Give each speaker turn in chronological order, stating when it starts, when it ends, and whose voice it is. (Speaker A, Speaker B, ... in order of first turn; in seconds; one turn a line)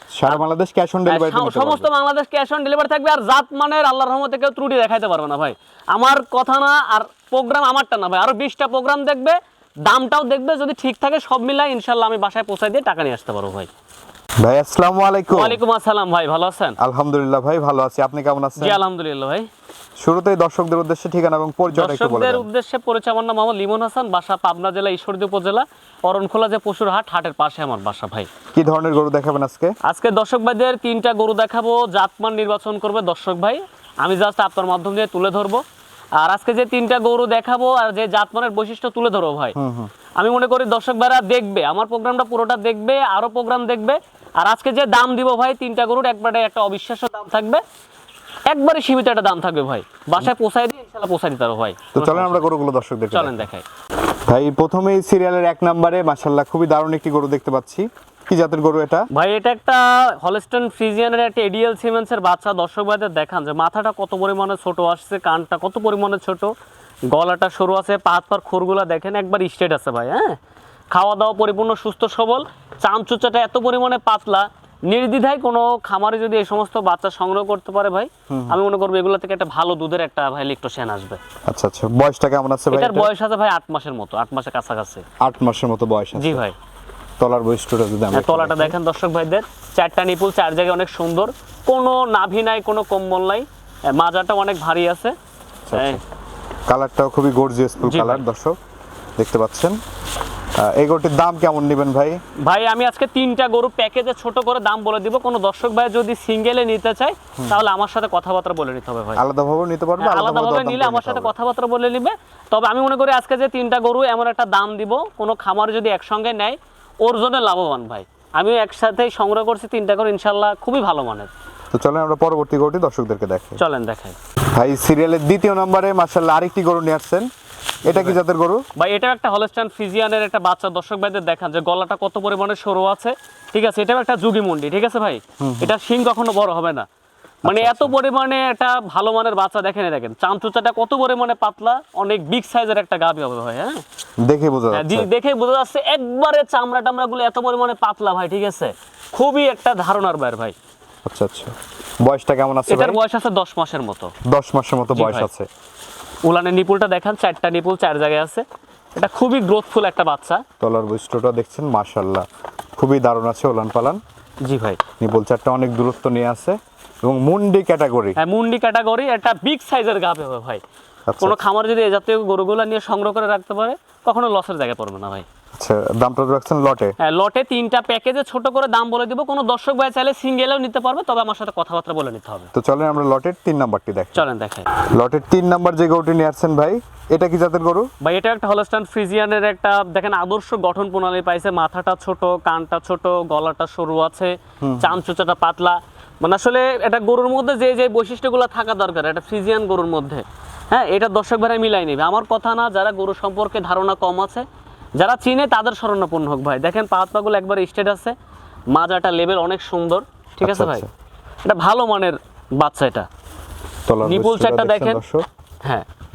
Speaker A: 0.1-1.9
Speaker B: 1.1-13.7
Speaker A: 14.4-15.6
Speaker B: 15.3-16.8
Speaker A: 16.8-18.8
Speaker B: 18.6-19.5
Speaker A: 20.0-22.5
Speaker B: 21.7-28.3
Speaker A: 28.5-29.8
Speaker B: 29.8-35.6
Speaker B: 36.2-39.5
Speaker A: 39.5-39.9
Speaker B: 40.2-47.6
Speaker B: 48.5-52.5
Speaker A: 51.9-53.4
Speaker B: 53.1-53.6
Speaker A: 54.3-59.1
Speaker B: 59.1-66.5
Speaker B: 67.1-70.4
Speaker B: 70.9-81.2
Speaker A: 78.3-78.6
Speaker A: 81.5-83.1
Speaker B: 82.7-85.0
Speaker A: 85.2-86.4
Speaker B: 86.1-86.5
Speaker A: 87.2-88.8
Speaker B: 88.1-95.1
Speaker A: 95.7-96.0
Speaker B: 95.7-96.0
Speaker A: 96.7-98.6
Speaker B: 97.8-98.2
Speaker A: 99.2-99.8
Speaker A: 100.6-102.2
Speaker B: 102.4-109.2
Speaker A: 109.2-111.3
Speaker B: 110.0-121.3
Speaker A: 121.7-123.6
Speaker B: 123.6-124.2
Speaker A: 124.5-127.3
Speaker A: 127.8-128.6
Speaker B: 127.9-128.2
Speaker B: 128.8-136.8
Speaker A: 135.4-135.7
Speaker B: 137.4-143.8
Speaker A: 137.4-137.9
Speaker A: 144.2-145.1
Speaker B: 144.7-150.5
Speaker A: 151.1-153.0
Speaker B: 152.7-154.1
Speaker A: 154.2-155.5
Speaker B: 154.9-155.3
Speaker B: 156.2-158.4
Speaker B: 158.9-160.4
Speaker A: 160.6-164.0
Speaker B: 164.4-164.8
Speaker A: 165.0-168.2
Speaker B: 168.2-170.6
Speaker A: 171.1-171.4
Speaker B: 171.2-175.2
Speaker A: 175.5-176.9
Speaker B: 177.0-182.5
Speaker A: 182.5-184.2
Speaker B: 184.1-184.7
Speaker A: 184.8-187.9
Speaker B: 188.0-204.4
Speaker A: 194.6-195.0
Speaker B: 205.0-208.1
Speaker B: 208.7-210.8
Speaker A: 210.4-210.9
Speaker B: 211.4-213.1
Speaker A: 213.9-215.2
Speaker B: 214.0-215.0